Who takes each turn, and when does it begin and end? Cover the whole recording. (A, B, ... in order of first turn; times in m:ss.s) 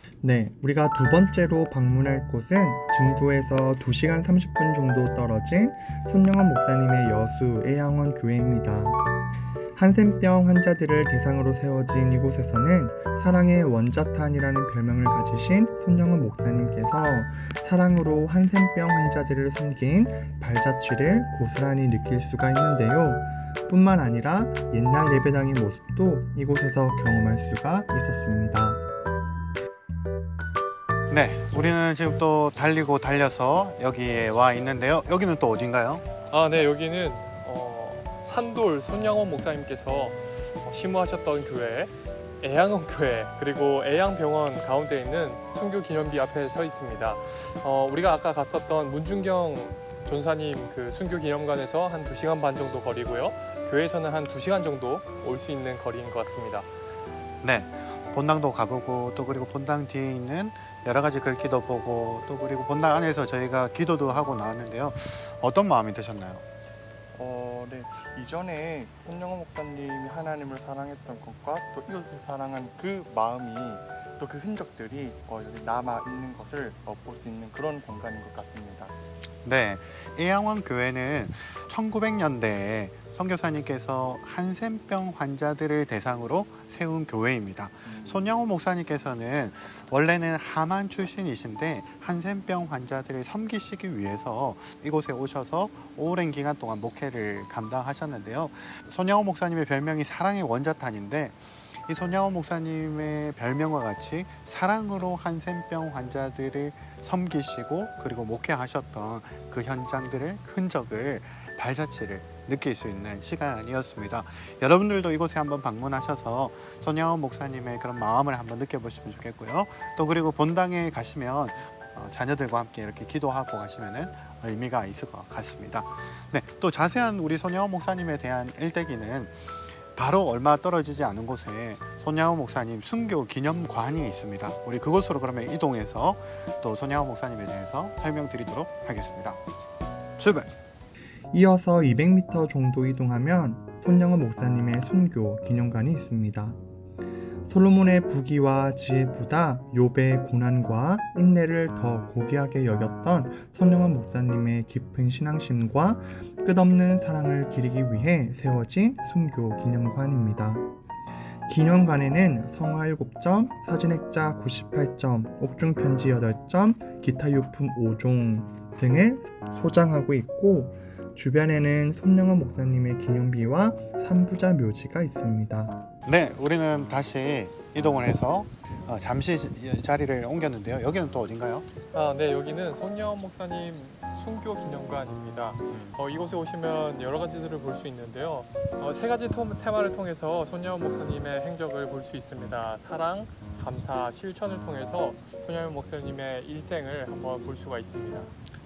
0:00.2-0:09.0 A
0:09.7-0:28.8 A
0:31.1-0:36.0 B
0:36.3-0:56.7 C
0:57.4-1:06.4 B
1:07.1-1:18.9 D
1:19.4-2:19.4 B
1:27.8-1:28.2 D
2:20.2-2:20.5 B
2:21.3-2:26.6 A
2:27.4-2:40.6 A
2:41.5-2:55.8 A
2:56.0-3:01.6 B
3:01.9-3:18.3 C